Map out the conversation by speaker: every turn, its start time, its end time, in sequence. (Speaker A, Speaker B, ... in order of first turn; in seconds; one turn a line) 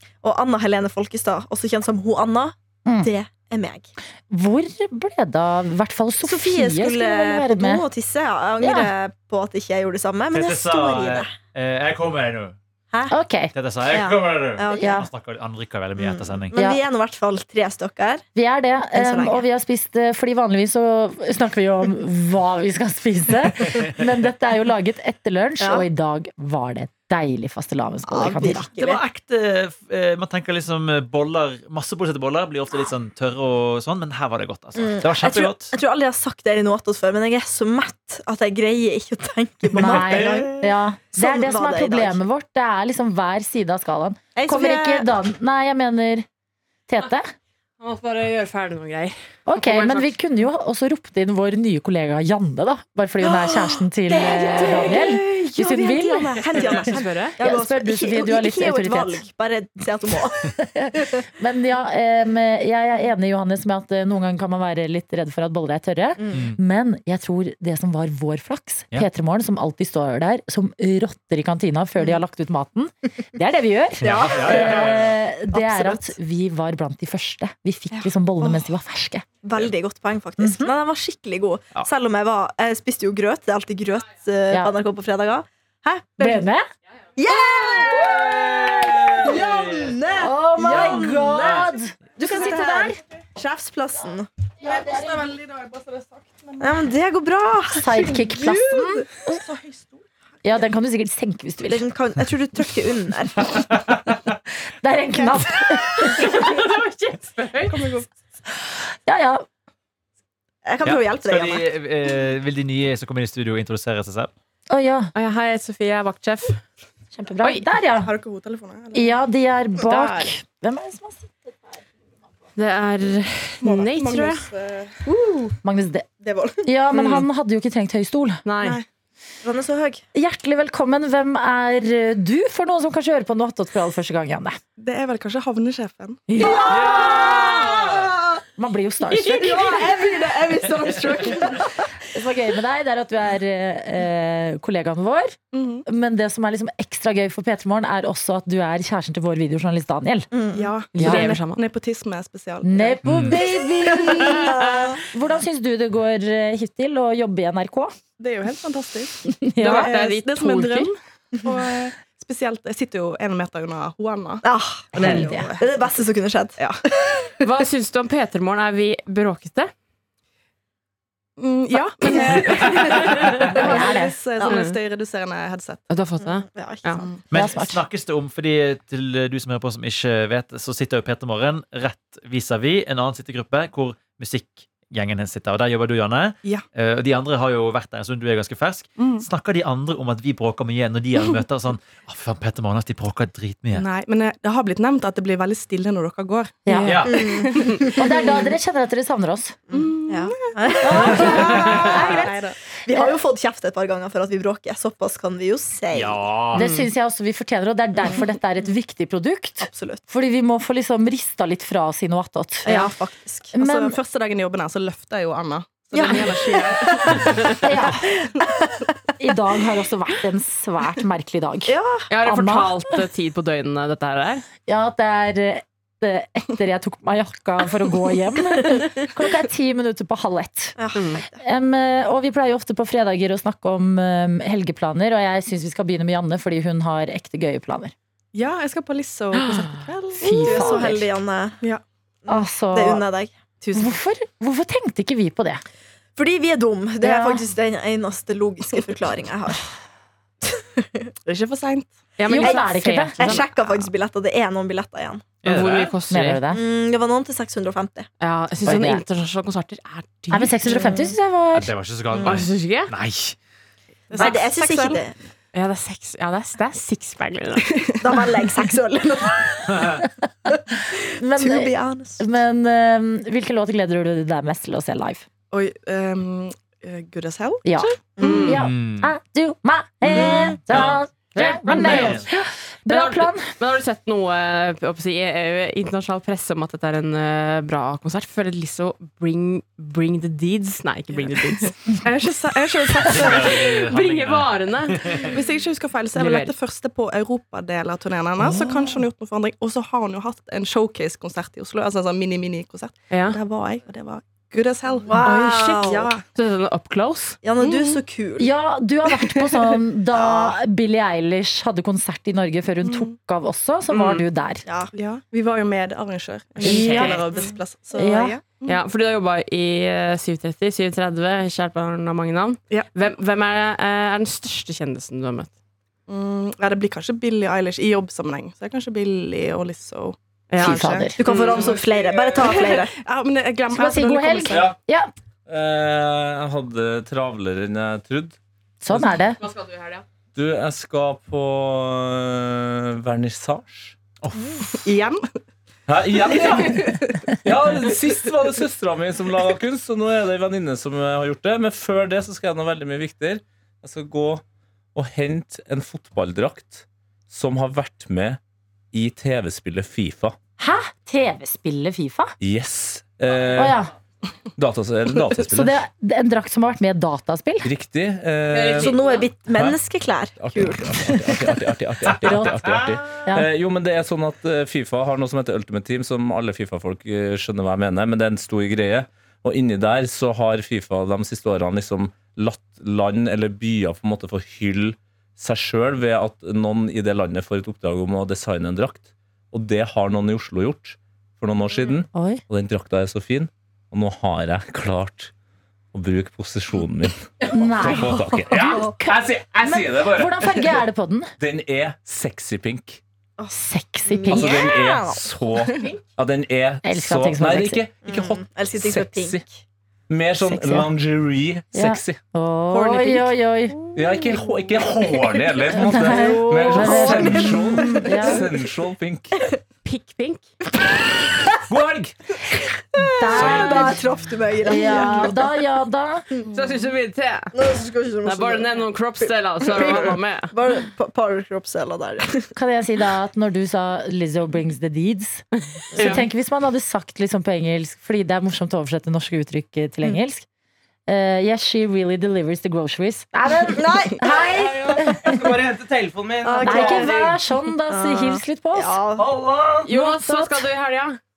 Speaker A: 0.2-3.9
Speaker B: 2.9-3.1
Speaker B: 4.3-7.9
Speaker A: 6.2-11.3
Speaker B: 8.6-8.9
Speaker C: 10.3-12.6
Speaker B: 13.1-13.5
Speaker C: 13.5-16.5
Speaker A: 13.9-15.1
Speaker B: 14.7-15.1
Speaker A: 16.0-18.3
Speaker B: 16.5-16.8
Speaker B: 18.3-28.7
Speaker A: 18.9-19.4
Speaker A: 25.6-25.9
Speaker A: 28.0-29.0
Speaker C: 28.7-35.7
Speaker A: 34.8-42.2
Speaker B: 39.7-46.3
Speaker A: 44.3-45.1
Speaker B: 46.9-47.3
Speaker D: 47.8-50.1
Speaker B: 49.5-56.3
Speaker E: 54.1-56.9
Speaker A: 55.9-61.0
Speaker D: 56.5-57.4
Speaker B: 57.4-59.2
Speaker B: 60.7-79.2
Speaker A: 66.2-66.5
Speaker C: 66.3-66.6
Speaker C: 74.0-75.2
Speaker E: 74.0-74.8
Speaker E: 75.7-76.0
Speaker A: 78.4-78.7
Speaker A: 79.4-86.5
Speaker B: 80.4-80.7
Speaker B: 86.2-86.6
Speaker A: 87.2-94.3
Speaker B: 87.8-93.0
Speaker E: 89.3-89.9
Speaker E: 90.7-91.7
Speaker E: 94.6-96.9
Speaker B: 94.6-95.3
Speaker A: 96.6-98.0
Speaker B: 97.7-99.4
Speaker E: 97.9-100.0
Speaker B: 100.4-101.8
Speaker A: 101.6-103.8
Speaker B: 104.8-106.5
Speaker E: 105.2-105.4
Speaker D: 106.2-107.8
Speaker E: 107.6-108.2
Speaker B: 109.0-109.5
Speaker A: 110.6-111.7
Speaker C: 110.8-114.3
Speaker B: 114.7-115.1
Speaker D: 115.1-116.6
Speaker B: 117.1-118.1
Speaker D: 117.4-117.7
Speaker E: 118.0-119.2
Speaker B: 118.9-121.8
Speaker D: 122.5-124.5
Speaker E: 123.6-125.0
Speaker D: 125.1-125.5
Speaker B: 125.6-126.1
Speaker E: 126.2-126.6
Speaker B: 126.6-128.4
Speaker D: 126.9-127.2
Speaker D: 128.4-128.8
Speaker E: 128.6-128.8
Speaker A: 129.4-130.0
Speaker B: 130.1-134.6
Speaker E: 134.8-138.1
Speaker B: 136.3-137.9
Speaker B: 138.6-140.1
Speaker E: 139.1-141.7
Speaker B: 142.1-150.3
Speaker E: 145.5-145.8
Speaker A: 150.3-150.7
Speaker E: 150.5-154.4
Speaker D: 150.9-151.6
Speaker B: 151.0-151.3
Speaker B: 152.6-157.9
Speaker C: 153.0-153.4
Speaker A: 154.4-154.9
Speaker E: 158.2-165.7
Speaker B: 159.3-159.9
Speaker D: 159.6-160.9
Speaker A: 164.4-166.9
Speaker B: 165.0-165.5
Speaker D: 167.4-169.7
Speaker E: 171.4-175.8
Speaker D: 172.0-173.5
Speaker B: 173.5-174.2
Speaker D: 174.5-174.7
Speaker D: 175.9-177.0
Speaker A: 176.2-177.1
Speaker C: 177.3-193.9
Speaker B: 177.3-177.8
Speaker E: 189.0-189.2
Speaker E: 193.7-198.4
Speaker B: 196.6-197.2
Speaker C: 196.8-197.3
Speaker A: 197.1-198.4
Speaker B: 197.9-199.6
Speaker A: 199.7-206.3
Speaker E: 199.7-202.6
Speaker B: 200.8-202.1
Speaker C: 201.3-201.8
Speaker C: 205.9-206.6
Speaker B: 206.5-212.9
Speaker D: 206.6-206.9
Speaker A: 208.0-208.3
Speaker A: 209.6-210.0
Speaker A: 212.6-213.9
Speaker B: 213.5-213.9
Speaker E: 213.9-217.7
Speaker A: 215.9-217.2
Speaker B: 217.5-218.1
Speaker B: 219.2-222.8
Speaker A: 221.7-222.1
Speaker D: 222.1-224.4
Speaker B: 224.7-230.7
Speaker A: 230.8-231.4
Speaker D: 230.9-231.2
Speaker B: 231.4-237.9
Speaker E: 238.3-240.7
Speaker B: 240.2-241.1
Speaker A: 240.3-241.6
Speaker B: 242.3-243.1
Speaker A: 242.3-244.0
Speaker B: 243.7-245.6
Speaker A: 246.2-249.6
Speaker B: 247.0-247.4
Speaker A: 250.6-250.8
Speaker E: 251.2-252.5
Speaker D: 252.2-253.5
Speaker B: 252.3-253.4
Speaker A: 253.2-255.2
Speaker C: 255.4-255.9
Speaker D: 255.4-256.4
Speaker B: 256.1-256.6
Speaker A: 256.5-258.1
Speaker D: 258.2-260.9
Speaker B: 258.6-259.0
Speaker B: 260.3-261.7
Speaker A: 260.7-261.1
Speaker C: 261.5-263.4
Speaker D: 262.2-262.9
Speaker E: 264.1-265.0
Speaker D: 264.1-264.6
Speaker A: 264.2-265.1
Speaker D: 265.5-267.8
Speaker A: 268.0-269.9
Speaker B: 271.2-275.2
Speaker A: 271.3-272.2
Speaker E: 275.5-278.5
Speaker B: 277.6-283.5
Speaker A: 278.2-278.4
Speaker D: 278.2-278.6
Speaker C: 278.5-279.1
Speaker A: 280.1-280.8
Speaker C: 280.7-282.3
Speaker D: 281.3-282.2
Speaker D: 282.9-291.7
Speaker E: 291.1-293.7
Speaker C: 293.0-295.3
Speaker D: 293.1-295.3
Speaker E: 295.2-306.2
Speaker D: 296.1-296.5
Speaker B: 298.5-298.9
Speaker D: 303.1-303.4
Speaker A: 305.1-306.1
Speaker D: 305.1-307.4
Speaker A: 307.4-308.5
Speaker B: 308.4-314.6
Speaker A: 310.1-310.5
Speaker E: 312.9-313.1
Speaker D: 313.9-314.2
Speaker A: 314.6-314.9
Speaker E: 314.9-318.8
Speaker D: 316.6-317.2
Speaker B: 316.6-317.4
Speaker B: 317.9-318.4
Speaker D: 318.6-325.5
Speaker E: 326.1-331.7
Speaker D: 330.5-331.7
Speaker B: 330.6-331.1
Speaker A: 331.1-332.9
Speaker F: 331.6-332.3
Speaker E: 332.4-334.7
Speaker B: 333.7-335.1
Speaker G: 334.5-334.8
Speaker G: 335.5-338.4
Speaker B: 338.8-339.4
Speaker G: 338.9-339.1
Speaker D: 339.4-340.0
Speaker G: 340.3-343.9
Speaker C: 344.2-344.6
Speaker E: 344.6-345.3
Speaker G: 345.9-354.4
Speaker E: 346.2-347.3
Speaker G: 354.9-358.4
Speaker G: 358.9-360.4
Speaker B: 360.6-362.3
Speaker G: 362.4-363.8
Speaker B: 363.5-363.9
Speaker G: 364.6-365.8
Speaker B: 365.4-367.7
Speaker G: 367.6-369.8
Speaker D: 368.5-369.3
Speaker A: 368.7-371.1
Speaker G: 370.4-395.3
Speaker B: 372.2-373.5
Speaker B: 392.1-392.4
Speaker G: 395.9-400.7
Speaker B: 397.5-401.3
Speaker A: 398.5-398.8
Speaker G: 401.4-403.0
Speaker B: 403.5-404.6
Speaker A: 404.0-405.2
Speaker G: 404.3-409.4
Speaker B: 406.8-407.8
Speaker A: 408.0-409.5
Speaker G: 410.1-412.2
Speaker B: 410.4-410.9
Speaker B: 411.7-413.8
Speaker D: 412.7-413.3
Speaker G: 413.9-419.4
Speaker B: 415.7-418.5
Speaker D: 419.8-420.5
Speaker G: 421.7-422.1
Speaker A: 422.9-425.5
Speaker B: 423.0-424.1
Speaker C: 423.3-423.9
Speaker B: 424.6-426.2
Speaker D: 426.4-427.5
Speaker A: 427.5-432.5
Speaker D: 428.2-430.5
Speaker B: 432.6-435.4
Speaker D: 435.9-436.2
Speaker B: 435.9-440.4
Speaker B: 441.1-445.5
Speaker A: 443.7-444.4
Speaker F: 444.2-447.4
Speaker A: 446.4-447.2
Speaker B: 446.6-449.0
Speaker A: 447.9-449.3
Speaker F: 449.2-449.9
Speaker D: 449.8-451.2
Speaker B: 449.9-450.7